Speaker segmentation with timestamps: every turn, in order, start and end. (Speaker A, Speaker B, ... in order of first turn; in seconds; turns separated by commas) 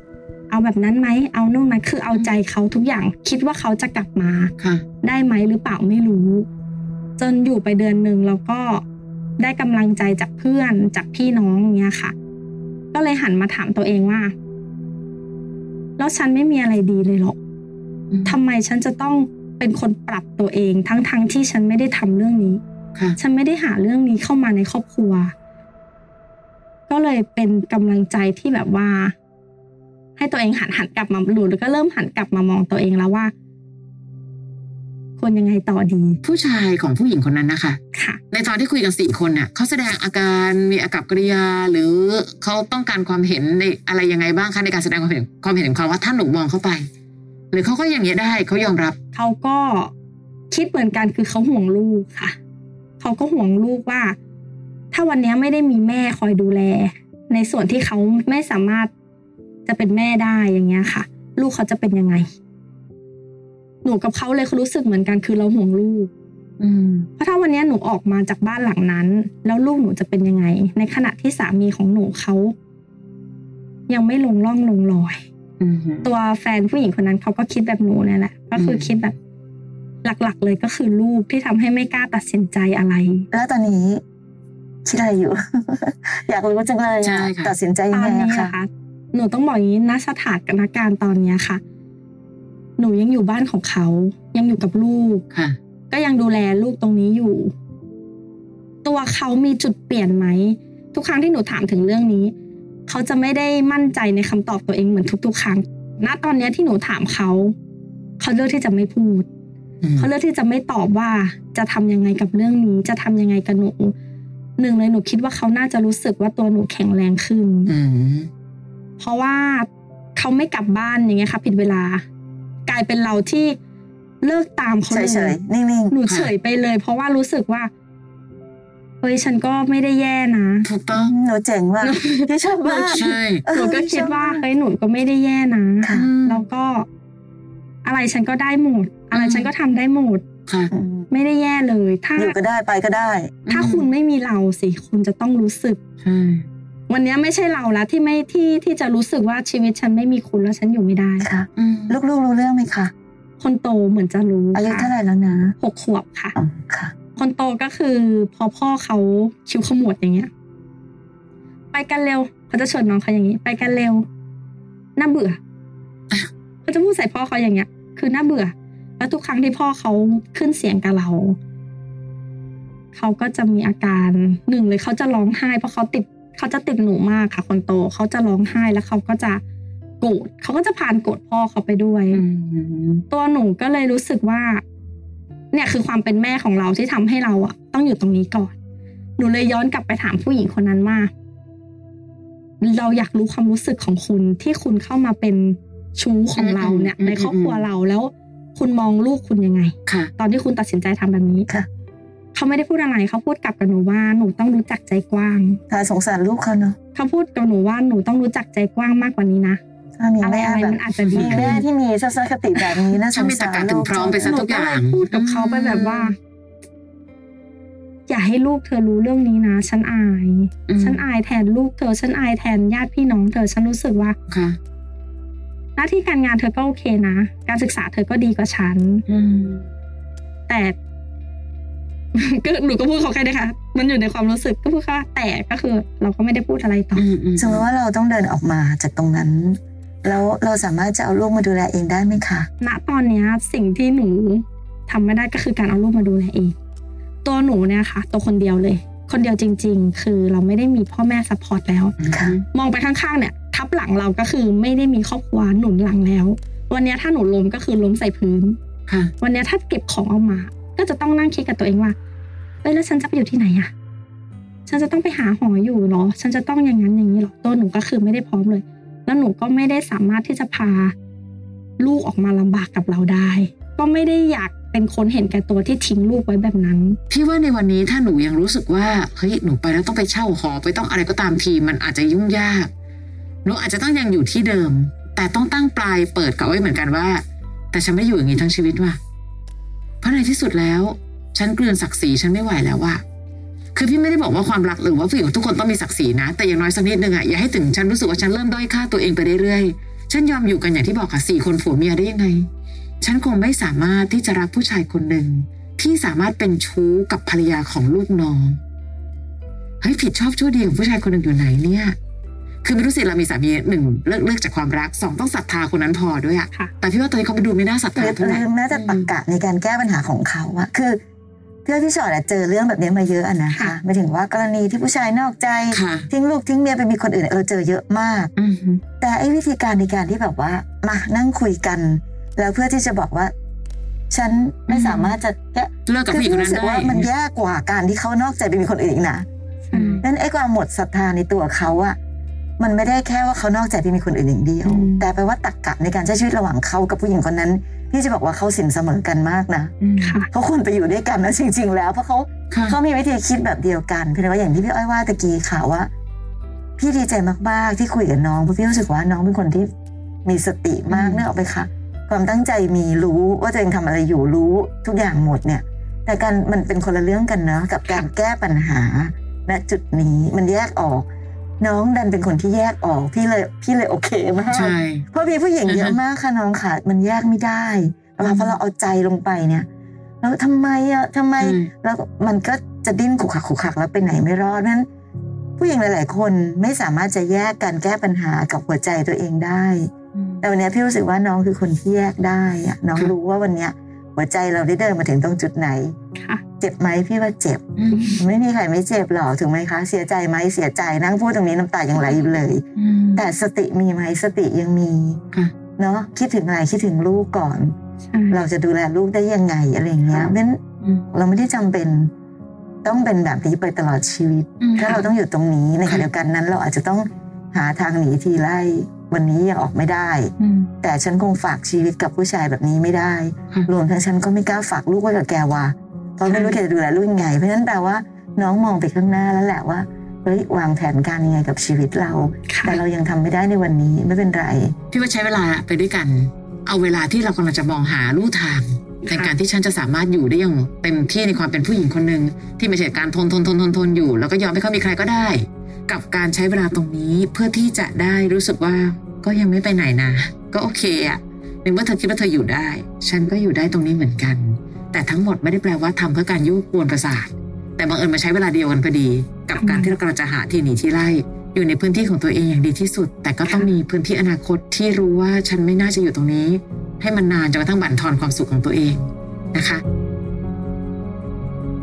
Speaker A: 0.5-6.5, Speaker B: 4.6-4.8, Speaker A: 7.2-8.8, Speaker A: 9.4-12.1, Speaker A: 12.9-14.3, Speaker A: 16.0-17.4, Speaker B: 18.1-18.4, Speaker A: 18.2-22.6, Speaker A: 23.2-25.3, Speaker A: 26.9-29.1, Speaker A: 30.2-33.3, Speaker A: 35.2-36.2, Speaker B: 36.2-37.8, Speaker A: 37.9-38.2, Speaker B: 38.3-46.9, Speaker B: 47.5-49.0, Speaker A: 49.1-49.9, Speaker A: 50.5-52.3, Speaker A: 53.0-54.2, Speaker A: 54.9-58.9, Speaker A: 59.6-62.2, Speaker A: 63.8-66.1, Speaker B: 66.6-67.1, Speaker A: 67.2-72.5, Speaker A: 73.9-75.2, Speaker B: 75.6-76.1, Speaker A: 76.0-79.1, Speaker B: 78.5-78.9, Speaker A: 80.0-83.3, Speaker C: 83.3-84.0, Speaker C: 84.8-88.5, Speaker B: 87.0-87.5, Speaker A: 87.9-91.6, Speaker A: 92.8-95.2, Speaker A: 95.9-97.5, Speaker A: 98.8-102.3, Speaker A: 102.9-107.5, Speaker A: 108.2-109.3, Speaker B: 109.8-110.1, Speaker A: 110.0-113.9, Speaker A: 114.6-117.7, Speaker B: 117.7-118.3, Speaker A: 119.0-122.0, Speaker A: 122.7-123.6, Speaker A: 124.2-125.3, Speaker C: 124.9-126.0, Speaker A: 125.9-127.7, Speaker A: 129.0-130.7, Speaker B: 130.6-131.1, Speaker C: 130.9-134.4, Speaker A: 131.8-136.9, Speaker B: 132.9-133.4, Speaker C: 135.8-136.1, Speaker B: 135.9-136.4, Speaker A: 137.8-140.2, Speaker B: 139.1-139.5, Speaker B: 140.5-140.7, Speaker C: 140.7-141.1, Speaker A: 141.1-142.3, Speaker C: 142.2-143.4, Speaker B: 143.4-143.9, Speaker A: 143.5-145.8, Speaker B: 146.0-146.4, Speaker A: 146.9-151.3, Speaker C: 151.2-152.9, Speaker B: 151.6-152.0, Speaker A: 153.4-154.9, Speaker C: 154.5-155.6, Speaker A: 155.6-156.3, Speaker C: 156.3-156.9, Speaker A: 157.2-160.3, Speaker A: 161.7-164.0, Speaker A: 164.9-165.4, Speaker A: 166.7-171.4, Speaker A: 172.9-179.4, Speaker A: 180.0-182.2, Speaker B: 182.1-183.0, Speaker A: 183.1-184.6, Speaker A: 185.5-188.5, Speaker A: 189.2-191.1, Speaker A: 192.6-201.5, Speaker B: 196.3-197.7, Speaker B: 199.8-200.1, Speaker A: 202.3-205.6, Speaker C: 205.7-206.8, Speaker A: 206.9-209.6, Speaker C: 210.0-214.4, Speaker A: 210.2-211.6, Speaker B: 211.1-211.6, Speaker B: 213.1-216.1, Speaker A: 214.0-216.2, Speaker A: 218.1-224.2, Speaker B: 220.7-221.0, Speaker B: 224.3-224.6, Speaker A: 225.8-229.0, Speaker B: 229.1-229.7, Speaker A: 230.5-230.8, Speaker A: 232.1-237.0, Speaker B: 236.9-237.7, Speaker C: 237.4-242.5, Speaker A: 242.6-246.5, Speaker A: 247.2-251.9, Speaker B: 252.0-252.4, Speaker C: 252.1-252.3, Speaker A: 252.5-258.6, Speaker A: 259.2-261.9, Speaker A: 262.6-263.7, Speaker A: 264.7-270.9, Speaker A: 271.8-277.0, Speaker B: 277.1-282.7, Speaker B: 283.4-289.0, Speaker B: 290.0-293.0, Speaker B: 293.7-302.5, Speaker B: 303.0-308.6, Speaker B: 309.8-311.9, Speaker B: 312.6-319.1, Speaker C: 317.9-321.0, Speaker C: 321.6-328.3, Speaker A: 323.5-323.7, Speaker B: 325.7-326.1, Speaker B: 328.4-328.8, Speaker C: 329.0-333.3, Speaker C: 334.1-339.2, Speaker B: 334.7-335.1, Speaker B: 335.9-337.1, Speaker A: 339.7-340.0, Speaker B: 339.7-340.0, Speaker C: 340.0-342.0, Speaker C: 342.6-349.8, Speaker B: 344.6-345.1, Speaker B: 349.8-350.2, Speaker A: 350.0-350.3, Speaker C: 350.3-355.9, Speaker B: 352.5-352.8, Speaker C: 356.8-359.7, Speaker C: 360.2-371.1, Speaker B: 360.9-361.2, Speaker C: 371.6-379.7, Speaker B: 374.5-375.0, Speaker B: 375.7-376.0, Speaker B: 378.2-378.6, Speaker C: 380.2-384.9, Speaker B: 381.4-381.7, Speaker C: 385.6-395.9, Speaker B: 390.1-390.5, Speaker A: 396.1-396.4, Speaker C: 396.6-402.6, Speaker B: 397.8-398.2, Speaker A: 397.9-398.2, Speaker A: 401.9-402.3, Speaker B: 402.8-403.3, Speaker C: 403.1-405.2, Speaker C: 405.8-407.7, Speaker A: 408.0-408.4, Speaker C: 408.3-410.6, Speaker B: 410.1-411.1, Speaker C: 411.1-412.1, Speaker C: 412.8-434.7, Speaker B: 414.6-415.1, Speaker B: 420.4-420.7, Speaker A: 426.3-426.6, Speaker A: 432.5-432.8, Speaker B: 434.9-469.8, Speaker A: 459.6-459.9